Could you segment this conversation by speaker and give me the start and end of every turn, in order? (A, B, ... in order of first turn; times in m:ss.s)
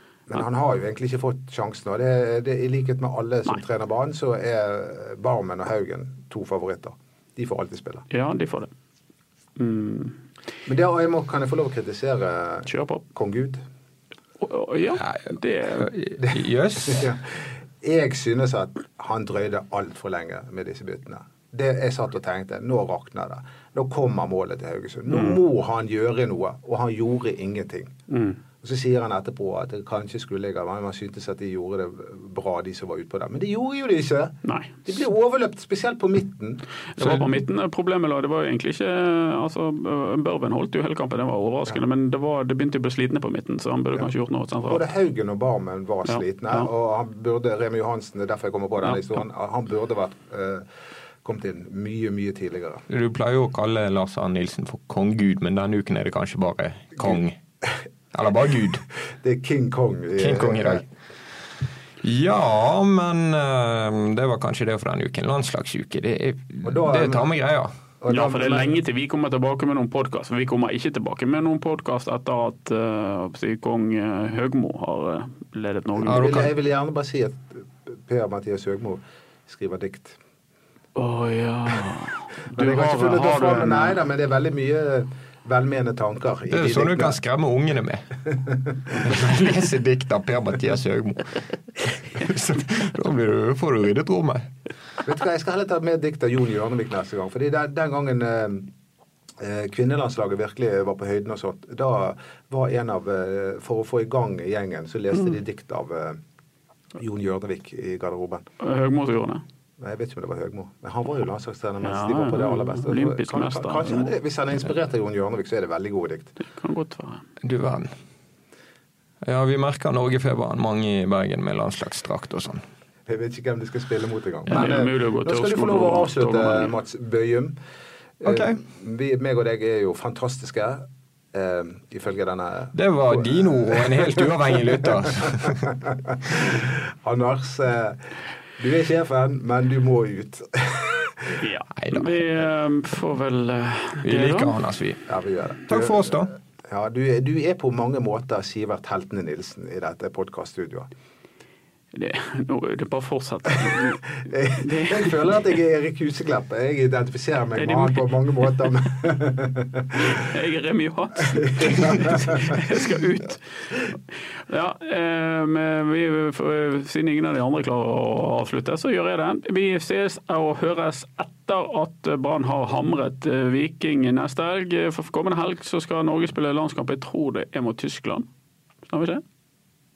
0:00.3-0:08.1 A
0:08.1-0:08.7 B
0:09.6-0:10.2 B
0:10.7-0:13.6 A
0:12.7-0:13.0 B
0:14.4-0:15.9 B
0:15.0-0:17.1 C
0:16.2-0:17.3 A
0:17.8-0:27.9 A
0:25.1-0:25.4 B
0:28.1-0:28.4 B
0:28.6-0:36.6 A
0:34.4-0:34.9 B
0:37.0-0:44.8 B
0:44.7-0:50.7 A
0:46.1-0:46.7 B
0:51.2-0:52.8 A
0:52.9-0:57.4 C
0:58.1-0:58.8 C
0:59.2-1:00.8 A
1:00.2-1:00.8 C
1:02.0-1:07.7 C
1:06.6-1:07.3 A
1:08.0-1:08.7 A
1:08.1-1:16.3 B
1:16.0-1:20.2 A
1:16.1-1:16.5 C
1:21.0-1:24.0 B
1:22.5-1:27.2 A
1:26.5-1:28.1 C
1:28.9-1:34.5 C
1:35.0-1:38.7 A
1:39.4-1:46.2 A
1:47.0-1:48.4 A
1:48.6-1:49.4 B
1:49.8-1:56.4 A
1:51.8-1:54.1 B
1:56.4-1:57.3 B
1:57.4-1:57.9 C
1:59.2-2:02.6 C
2:03.1-2:07.6 A
2:04.5-2:06.7 B
2:08.2-2:14.3 A
2:08.2-2:08.6 C
2:12.7-2:15.7 C
2:15.3-2:18.1 A
2:18.6-2:21.4 A
2:21.4-2:24.6 B
2:21.8-2:22.1 C
2:24.0-2:25.0 C
2:25.1-2:30.9 A
2:25.7-2:26.3 C
2:31.9-2:35.6 B
2:34.2-2:40.2 A
2:37.6-2:38.7 B
2:40.0-2:43.4 B
2:41.4-2:42.4 A
2:44.5-2:58.3 B
2:58.9-2:59.2 B